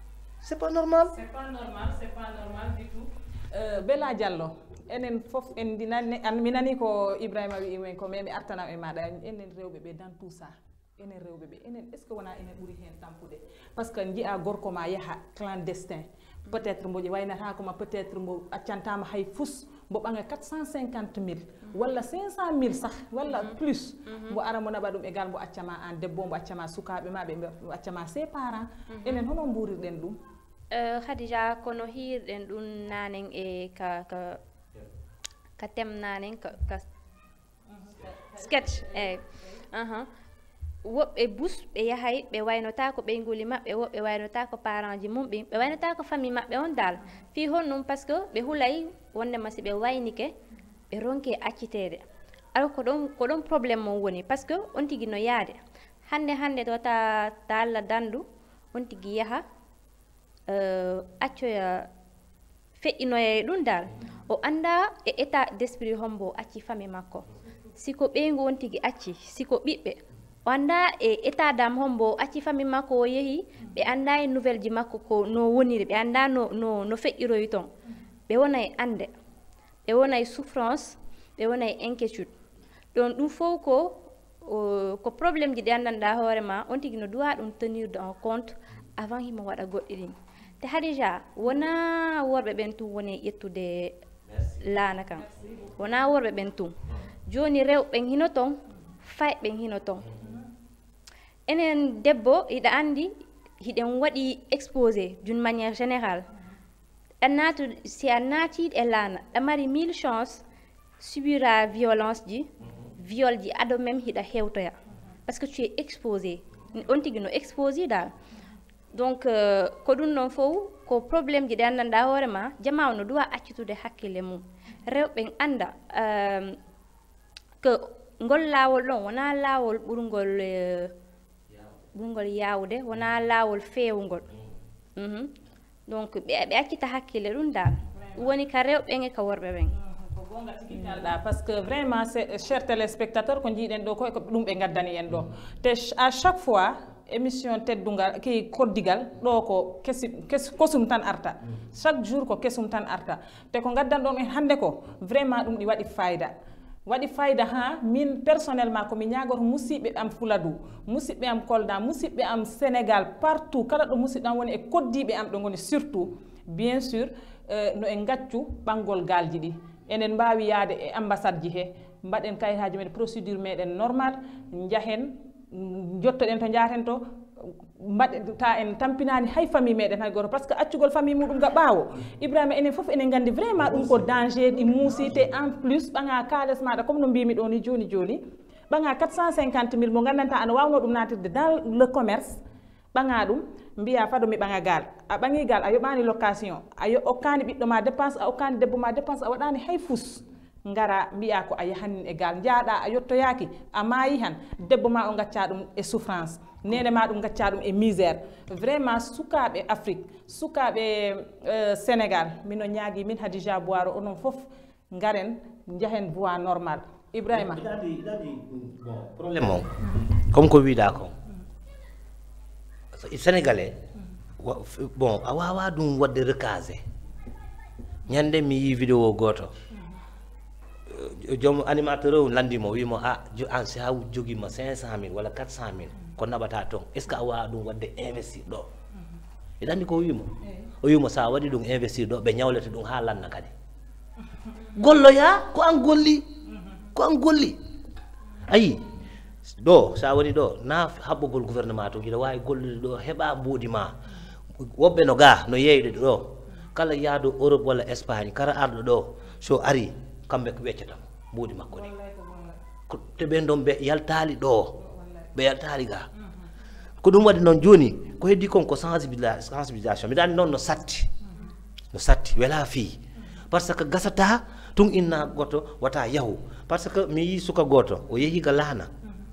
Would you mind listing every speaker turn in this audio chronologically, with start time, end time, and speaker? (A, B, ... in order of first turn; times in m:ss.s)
0:00.4-0:01.1 A
0:01.1-0:30.2 B
0:23.4-0:24.4 C
0:28.9-0:29.2 C
0:30.7-0:34.4 C
0:35.6-0:36.8 C
0:37.7-0:39.5 B
0:38.4-0:40.1 C
0:40.8-0:50.3 C
0:50.9-0:59.4 C
1:00.5-1:01.9 C
1:02.8-1:17.7 C
1:18.3-1:19.1 C
1:19.9-1:22.3 C
1:22.9-1:34.0 C
1:34.6-1:36.7 C
1:37.2-1:40.1 C
1:41.5-1:46.3 C
1:47.2-1:50.4 C
1:51.0-1:58.1 C
1:58.9-2:06.6 C
2:07.6-2:10.9 C
2:11.9-2:14.2 C
2:15.0-2:15.3 C
2:15.9-2:19.7 C
2:17.9-2:18.4 B
2:19.8-2:36.3 B
2:36.8-3:12.4 B
3:12.9-3:37.6 B
3:37.3-3:41.1 A
3:42.9-3:43.8 A
3:44.4-3:46.8 A
3:48.1-3:49.5 A
3:50.9-3:58.7 A
3:59.6-4:03.5 A
4:04.8-4:06.3 A
4:07.0-4:07.6 A
4:08.5-4:08.9 A
4:09.4-4:14.0 A
4:14.8-4:21.9 A
4:21.7-4:22.6 B
4:22.9-4:24.8 A
4:24.8-4:25.3 B
4:25.3-4:26.1 A
4:26.2-4:26.4 B
4:27.0-4:31.1 A
4:31.9-4:33.0 A
4:33.5-4:38.9 A